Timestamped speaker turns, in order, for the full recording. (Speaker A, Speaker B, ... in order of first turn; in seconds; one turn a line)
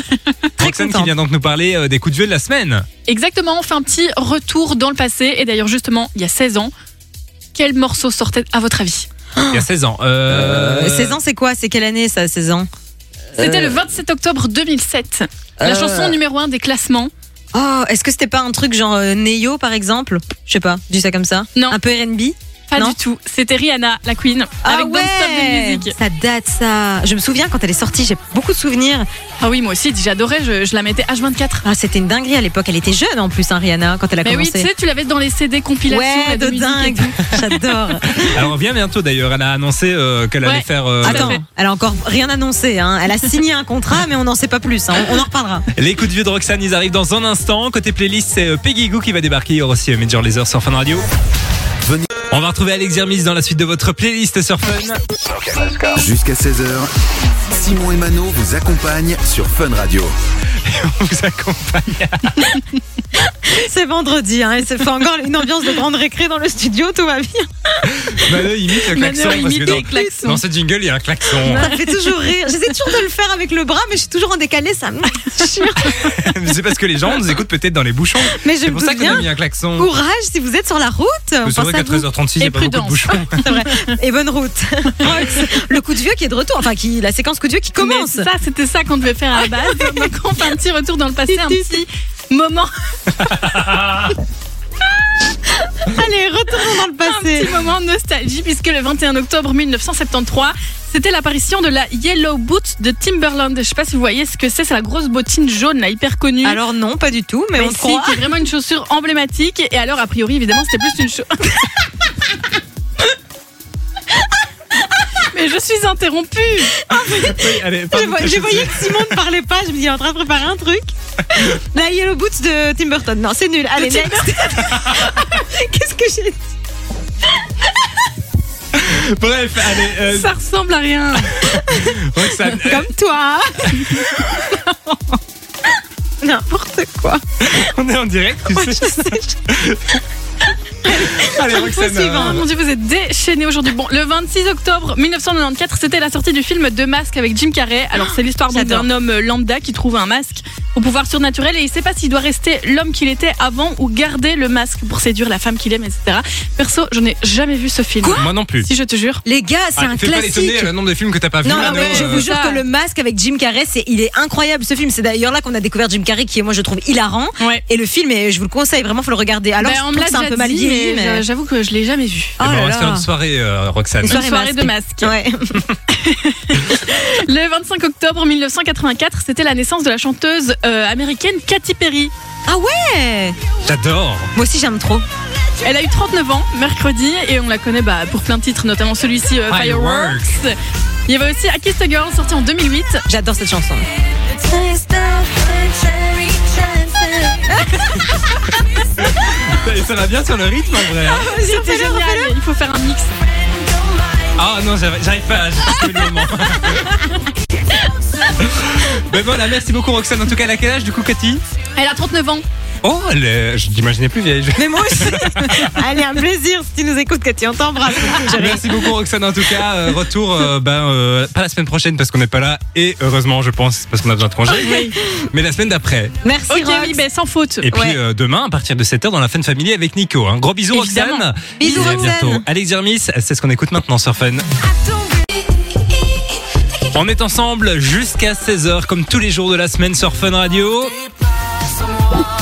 Speaker A: 0.6-1.1
Speaker B: 0.6-2.9
Speaker C: 3.1-6.7
Speaker C: 7.5-9.1
Speaker A: 9.3-9.6
Speaker B: 9.5-11.2
Speaker A: 10.4-12.7
Speaker C: 13.4-17.1
Speaker A: 15.6-16.1
Speaker A: 17.5-22.9
Speaker C: 22.7-25.9
Speaker A: 24.6-29.1
Speaker C: 29.4-31.6
Speaker A: 31.6-34.7
Speaker C: 34.2-37.2
Speaker A: 35.9-38.5
Speaker B: 38.1-41.4
Speaker C: 40.4-41.4
Speaker A: 41.0-45.7
Speaker B: 45.7-51.0
Speaker D: 51.8-52.1
Speaker B: 52.3-55.0
Speaker D: 55.5-56.9
Speaker D: 57.5-60.1
Speaker B: 60.6-62.5
Speaker A: 63.2-68.2
Speaker B: 67.8-71.7
Speaker C: 68.9-70.4
Speaker A: 69.6-70.1
Speaker A: 71.3-76.0
Speaker C: 71.5-72.0
Speaker B: 75.8-79.9
Speaker A: 78.3-82.0
Speaker B: 81.4-83.5
Speaker C: 82.4-83.7
Speaker A: 83.4-88.3
Speaker C: 87.8-92.7
Speaker A: 89.7-90.1
Speaker A: 91.3-91.8
Speaker B: 93.2-94.1
Speaker A: 95.5-97.5
Speaker C: 97.0-106.6
Speaker A: 106.4-108.2
Speaker C: 107.5-111.8
Speaker C: 115.2-116.8
Speaker B: 116.9-119.1
Speaker A: 116.9-126.4
Speaker C: 123.8-124.3
Speaker B: 128.7-130.3
Speaker C: 129.9-131.5
Speaker B: 131.2-132.9
Speaker A: 131.5-134.0
Speaker B: 133.6-134.0
Speaker C: 134.5-135.0
Speaker A: 136.2-137.2
Speaker B: 137.4-140.0
Speaker A: 138.5-139.3
Speaker B: 140.8-142.4
Speaker A: 141.1-142.4
Speaker C: 142.1-159.2
Speaker A: 148.5-148.8
Speaker A: 158.0-158.3
Speaker B: 158.1-158.7
Speaker A: 159.2-160.7
Speaker B: 159.8-162.3
Speaker A: 161.4-171.2
Speaker C: 161.5-162.6
Speaker C: 169.6-172.4
Speaker A: 172.4-173.1
Speaker B: 172.4-174.2
Speaker A: 174.0-175.7
Speaker C: 174.0-175.1
Speaker C: 175.9-182.1
Speaker A: 182.4-183.4
Speaker B: 183.6-184.3
Speaker A: 184.3-185.0
Speaker C: 185.6-190.5
Speaker B: 189.5-190.4
Speaker C: 191.1-193.0
Speaker A: 193.1-198.1
Speaker B: 199.1-201.3
Speaker A: 201.0-202.3
Speaker C: 201.2-204.0
Speaker B: 204.3-207.0
Speaker B: 208.3-211.4
Speaker C: 211.8-212.4
Speaker B: 212.8-215.8
Speaker A: 214.6-218.7
Speaker B: 218.1-226.1
Speaker C: 224.6-225.0
Speaker A: 226.2-227.0
Speaker C: 226.5-227.7
Speaker B: 227.6-234.4
Speaker A: 227.7-228.0
Speaker C: 230.7-231.2
Speaker A: 231.6-232.4
Speaker B: 236.9-240.9